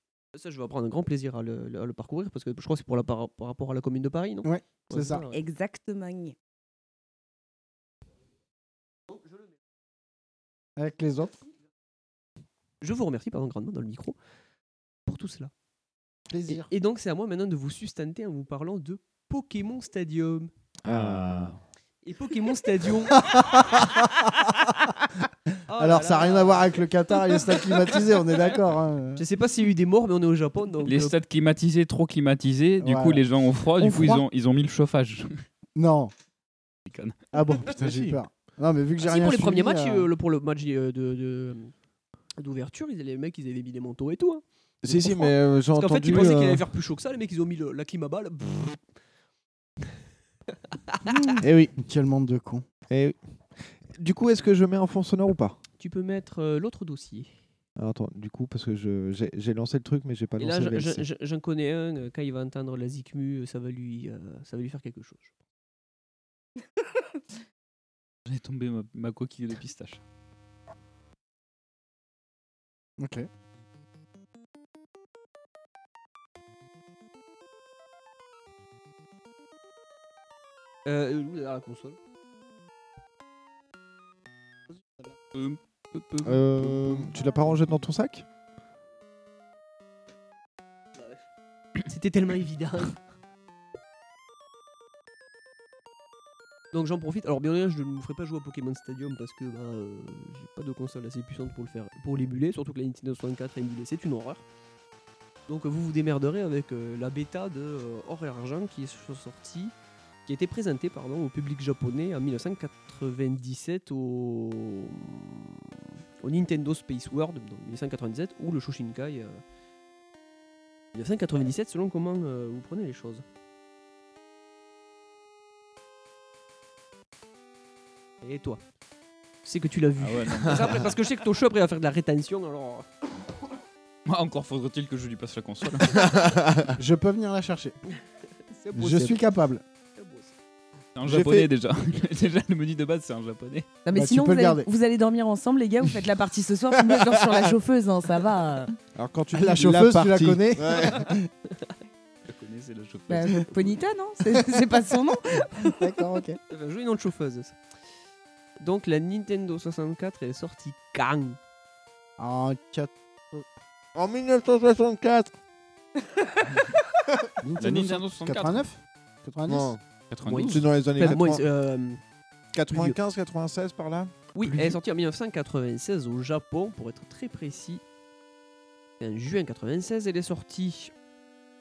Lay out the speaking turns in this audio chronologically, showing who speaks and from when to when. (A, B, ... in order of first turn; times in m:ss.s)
0:00.3-0:05.4 A
0:04.4-0:05.2 B
0:05.3-0:06.3 C
0:09.1-0:09.5 A
0:10.8-0:11.4 B
0:12.8-0:14.2 A
0:15.0-0:15.5 A
0:16.3-0:16.7 B
0:16.5-0:20.5 A
0:20.8-0:21.6 D
0:20.9-0:21.6 E
0:22.0-0:23.2 A
0:23.6-0:23.8 B
0:25.7-0:26.8 A
0:25.7-0:29.2 B
0:29.2-0:31.1 A
0:30.8-0:35.4 E
0:32.8-0:33.2 B
0:33.8-0:34.0 B
0:35.7-0:36.1 B
0:36.9-0:37.1 E
0:37.3-0:40.1 B
0:37.8-0:38.2 D
0:39.0-0:41.7 A
0:42.4-0:48.8 A
0:44.8-0:46.7 D
0:50.9-0:51.3 A
0:51.1-0:52.6 B
0:51.4-0:51.8 D
0:52.9-0:55.6 D
0:55.8-0:57.3 A
0:57.8-1:01.1 D
1:00.4-1:05.3 A
1:08.2-1:10.0 E
1:13.0-1:13.3 B
1:20.8-1:22.0 A
1:25.3-1:25.6 E
1:25.9-1:27.6 A
1:26.2-1:28.2 D
1:31.0-1:31.2 A
1:31.8-1:33.0 A
1:36.7-1:44.4 A
1:45.5-1:49.7 A
1:50.2-1:59.4 A
2:00.9-2:03.2 A
2:08.2-2:08.6 A
2:09.4-2:12.9 A
2:10.0-2:10.9 E
2:14.0-2:16.1 E
2:16.0-2:16.5 D
2:16.8-2:17.8 B
2:18.5-2:19.2 A
2:18.7-2:19.6 B
2:20.0-2:20.3 A
2:20.9-2:23.7 E
2:21.0-2:21.5 D
2:23.8-2:28.7 C
2:23.9-2:24.6 B
2:28.9-2:31.1 D
2:29.3-2:31.3 B
2:32.2-2:33.6 E
2:33.1-2:35.7 C
2:35.6-2:36.4 B
2:36.5-2:37.6 A
2:38.6-2:41.4 A
2:42.2-2:43.4 B
2:43.9-2:45.3 D
2:47.4-2:49.7 B
2:47.6-2:48.6 E
2:49.5-2:51.4 D
2:50.1-2:50.7 E
2:50.2-2:52.0 A
2:52.5-2:54.8 D
2:52.7-2:53.0 A
2:54.3-2:57.8 A
2:59.0-3:00.9 A